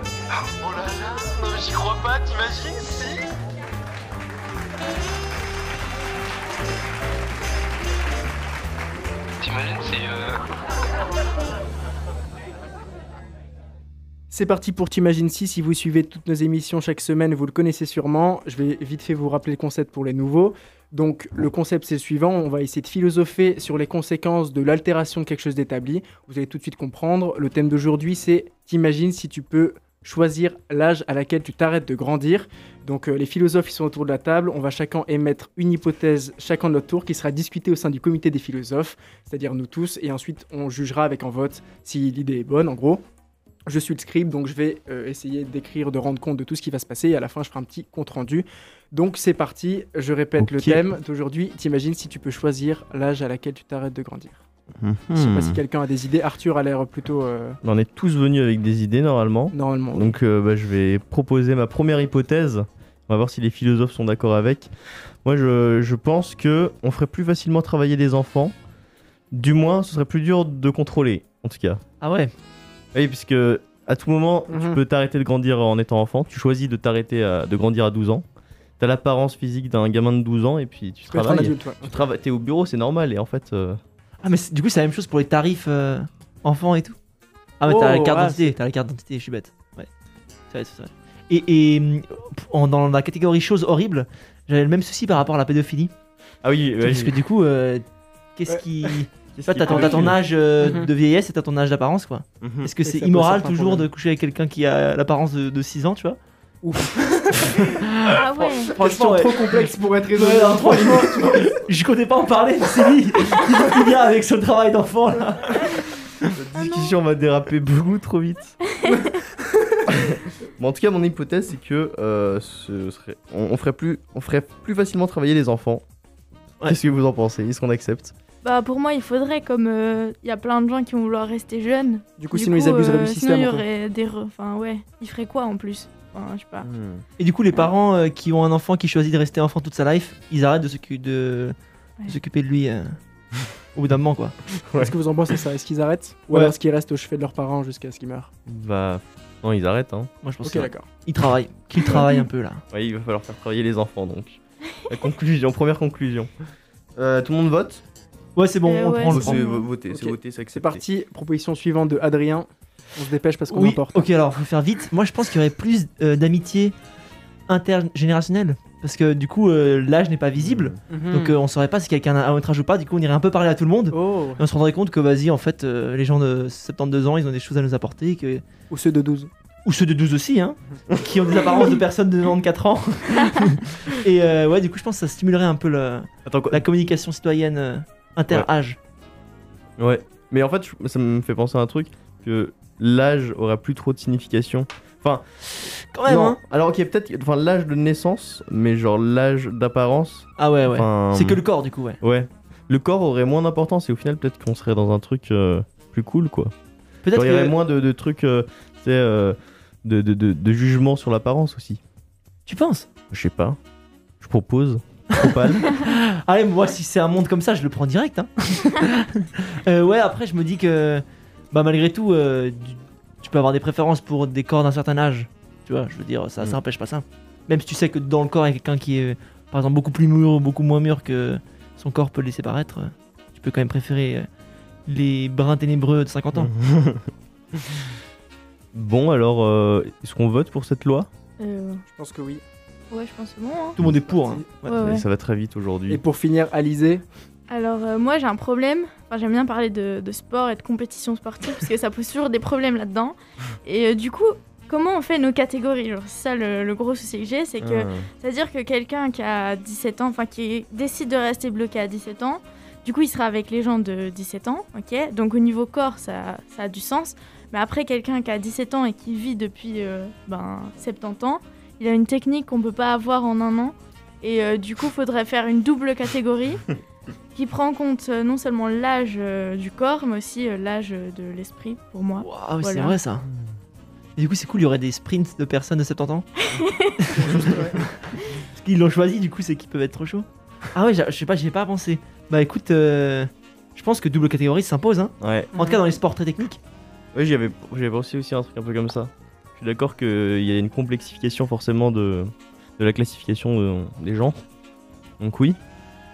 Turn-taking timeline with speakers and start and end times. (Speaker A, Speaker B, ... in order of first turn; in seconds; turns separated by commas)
Speaker A: 0.6-3.3, Speaker A: 9.4-10.4, Speaker B: 14.3-43.0, Speaker B: 43.7-54.4, Speaker C: 50.4-50.9, Speaker C: 54.8-55.6, Speaker B: 55.1-57.6, Speaker C: 57.6-64.7, Speaker B: 59.5-60.2, Speaker C: 65.2-68.5, Speaker C: 69.3-71.8, Speaker D: 72.0-72.3, Speaker C: 72.9-78.2, Speaker B: 74.5-74.8, Speaker C: 78.8-83.8, Speaker B: 81.1-82.0, Speaker D: 84.2-87.0, Speaker D: 87.6-89.9, Speaker B: 87.7-88.6, Speaker D: 90.5-95.9, Speaker C: 96.4-97.2, Speaker D: 96.8-97.8, Speaker D: 98.4-106.2, Speaker B: 98.5-99.0, Speaker C: 99.3-100.2, Speaker B: 99.7-100.1, Speaker B: 100.6-100.9, Speaker C: 102.4-102.7, Speaker B: 102.8-103.9, Speaker B: 106.6-107.7, Speaker D: 107.4-115.8, Speaker E: 108.1-108.7, Speaker B: 108.7-111.6, Speaker C: 116.3-118.6, Speaker B: 118.9-119.9, Speaker C: 119.9-125.8, Speaker C: 126.7-128.1, Speaker E: 128.4-136.7, Speaker B: 132.2-133.7, Speaker C: 136.6-137.0, Speaker D: 137.2-143.0, Speaker D: 143.8-144.4, Speaker C: 144.7-144.9, Speaker B: 144.7-148.3, Speaker C: 148.5-150.1, Speaker D: 150.2-152.6, Speaker B: 150.4-150.9, Speaker E: 151.9-152.2, Speaker C: 152.7-156.3, Speaker C: 157.0-157.8, Speaker D: 158.4-159.4, Speaker E: 158.7-159.7, Speaker C: 159.1-160.8, Speaker B: 159.8-164.1, Speaker D: 163.5-166.8, Speaker D: 167.5-178.4, Speaker C: 170.4-170.8, Speaker B: 170.9-171.3, Speaker B: 173.9-174.4, Speaker B: 178.7-179.3, Speaker D: 179.7-188.8, Speaker C: 186.2-186.7, Speaker C: 189.8-195.2, Speaker D: 195.8-196.4, Speaker C: 196.1-201.4, Speaker D: 200.4-202.0, Speaker C: 202.0-206.5, Speaker D: 207.0-207.6, Speaker C: 207.1-211.8, Speaker D: 212.5-212.9, Speaker C: 213.1-213.6, Speaker C: 214.2-215.7, Speaker D: 215.2-234.3, Speaker D: 234.9-236.5, Speaker C: 236.4-237.0, Speaker C: 238.7-241.1, Speaker E: 241.4-241.8, Speaker B: 241.9-242.4, Speaker E: 242.9-243.8, Speaker D: 243.8-244.8, Speaker B: 244.0-244.5, Speaker E: 244.7-245.1, Speaker C: 244.7-246.0, Speaker B: 245.9-247.1, Speaker E: 247.5-276.7, Speaker C: 257.6-258.1, Speaker E: 277.3-283.0, Speaker D: 282.2-283.3, Speaker D: 284.2-286.3, Speaker E: 286.5-287.0, Speaker D: 287.2-287.8, Speaker B: 287.3-287.8, Speaker D: 288.5-296.6, Speaker C: 295.2-295.5, Speaker B: 295.5-295.8, Speaker C: 297.1-304.4, Speaker C: 305.2-305.6